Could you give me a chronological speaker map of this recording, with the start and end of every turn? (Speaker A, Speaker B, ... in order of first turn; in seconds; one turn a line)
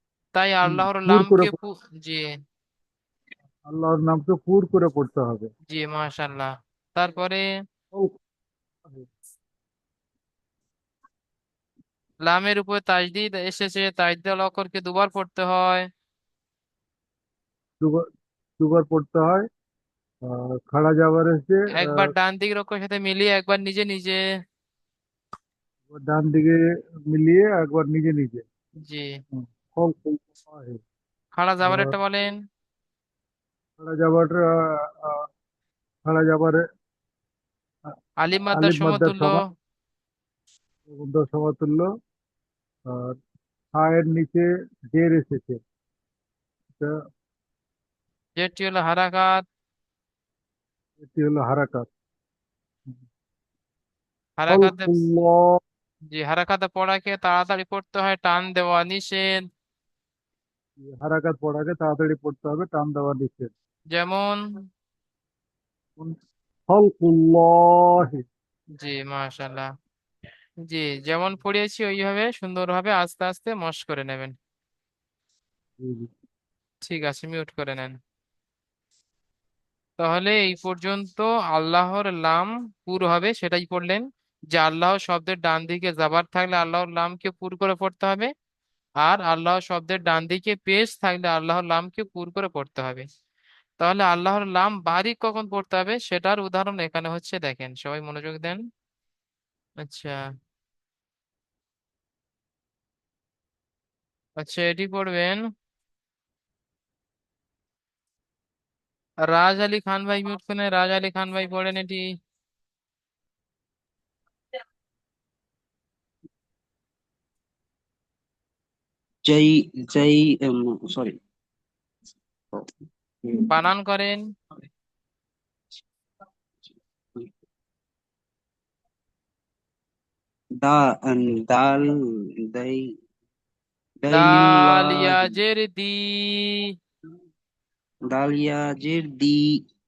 Speaker A: 0.3-2.2
Speaker B: 0.7-1.5
Speaker B: 3.7-5.5
Speaker A: 5.7-7.4
Speaker A: 12.2-15.9
Speaker B: 17.8-18.1
Speaker B: 18.6-19.4
Speaker B: 20.2-22.0
Speaker A: 21.7-24.2
Speaker B: 25.9-28.4
Speaker B: 29.4-30.8
Speaker A: 31.4-32.3
Speaker B: 31.6-31.9
Speaker B: 33.8-34.4
Speaker B: 36.0-36.6
Speaker A: 38.2-39.4
Speaker B: 38.5-39.4
Speaker B: 40.9-41.9
Speaker B: 42.9-43.2
Speaker B: 43.8-45.6
Speaker A: 48.4-49.4
Speaker B: 51.0-51.9
Speaker A: 54.4-55.0
Speaker B: 54.5-55.6
Speaker A: 56.1-59.4
Speaker B: 60.8-63.5
Speaker A: 63.9-64.4
Speaker B: 66.7-68.2
Speaker A: 68.8-69.7
Speaker A: 70.7-74.3
Speaker B: 75.8-76.1
Speaker A: 76.8-77.9
Speaker A: 80.0-88.3
Speaker A: 89.0-93.0
Speaker A: 93.8-98.6
Speaker A: 99.8-100.2
Speaker A: 104.4-105.4
Speaker A: 109.3-112.0
Speaker C: 119.3-121.2
Speaker C: 123.2-123.5
Speaker A: 123.5-124.2
Speaker C: 130.6-131.9
Speaker C: 132.5-132.8
Speaker C: 134.0-135.3
Speaker A: 134.1-136.7
Speaker C: 138.1-139.6